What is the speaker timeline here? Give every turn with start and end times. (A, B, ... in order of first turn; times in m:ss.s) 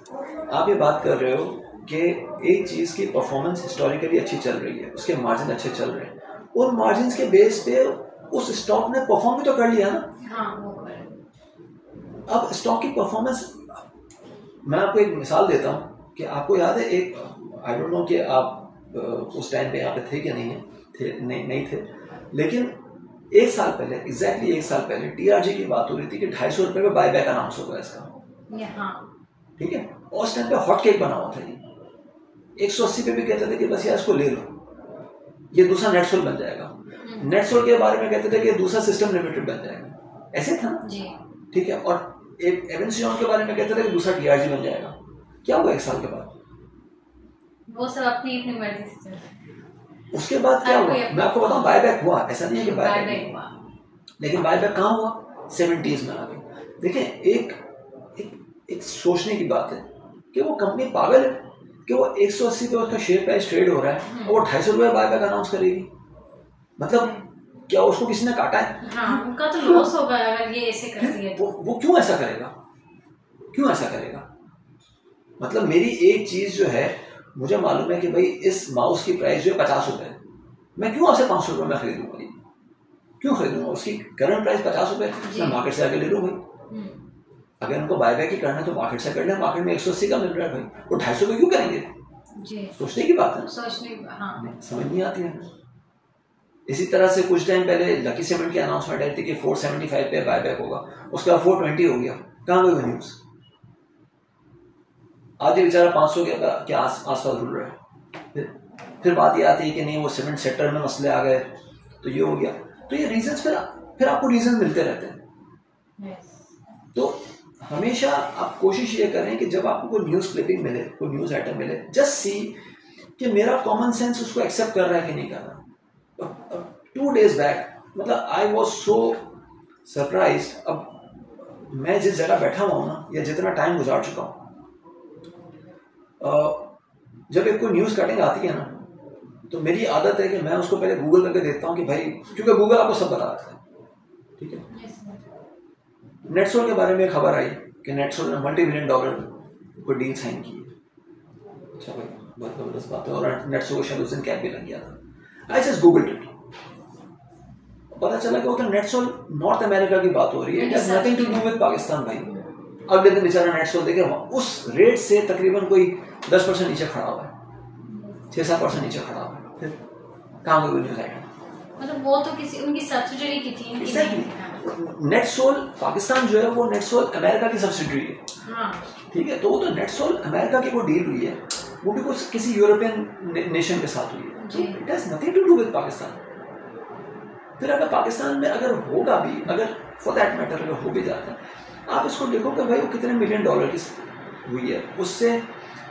0:00.5-0:10.1 A
0:10.2-0:11.1 B
0:12.3-0:13.8 A
0:14.6-0:22.8 A
0:23.3-0:28.1 A
0:28.5-0:29.0 B
0:29.6-0:31.6 A
0:32.6-0:34.6 A
0:35.5-0:40.8 A
0:37.0-0:37.3 B
0:40.8-0:41.2 B
0:41.5-0:46.3 A
0:47.7-0:49.3 B
0:50.1-0:53.4 A
0:50.6-0:51.9 B
0:52.5-0:53.6 B
0:54.2-0:57.6 A
0:58.2-1:05.9 A
1:04.1-1:04.4 B
1:06.8-1:07.1 A
1:06.9-1:07.2 B
1:07.7-1:09.9 A
1:08.8-1:11.4 B
1:11.0-1:12.5 A
1:13.5-1:14.2 A
1:15.4-1:20.2 A
1:20.8-1:22.4 A
1:23.2-1:26.4 A
1:25.2-1:25.6 B
1:26.7-1:27.0 B
1:27.6-1:31.9 A
1:32.4-1:32.8 B
1:32.8-1:33.5 A
1:33.5-1:34.4 B
1:34.4-1:35.5 A
1:36.7-1:43.2 A
1:45.4-1:47.8 A
1:48.3-1:51.5 A
1:52.0-1:55.2 A
1:56.0-1:56.5 B
1:56.9-2:02.6 A
2:03.2-2:05.6 A
2:06.2-2:09.3 A
2:09.8-2:14.4 A
2:16.2-2:16.7 A
2:17.3-2:18.7 A
2:19.5-2:23.6 A
2:24.4-2:24.6 A
2:24.7-2:25.2 B
2:26.3-2:30.7 A
2:31.8-2:35.0 A
2:35.5-2:36.3 A
2:37.9-2:47.3 A
2:40.6-2:41.5 B
2:48.3-2:49.8 A
2:50.4-2:51.3 A
2:51.8-2:54.6 B
2:53.8-2:58.2 A
2:58.4-2:58.8 B
2:59.1-3:06.2 A
3:04.4-3:04.8 B
3:07.6-3:15.4 A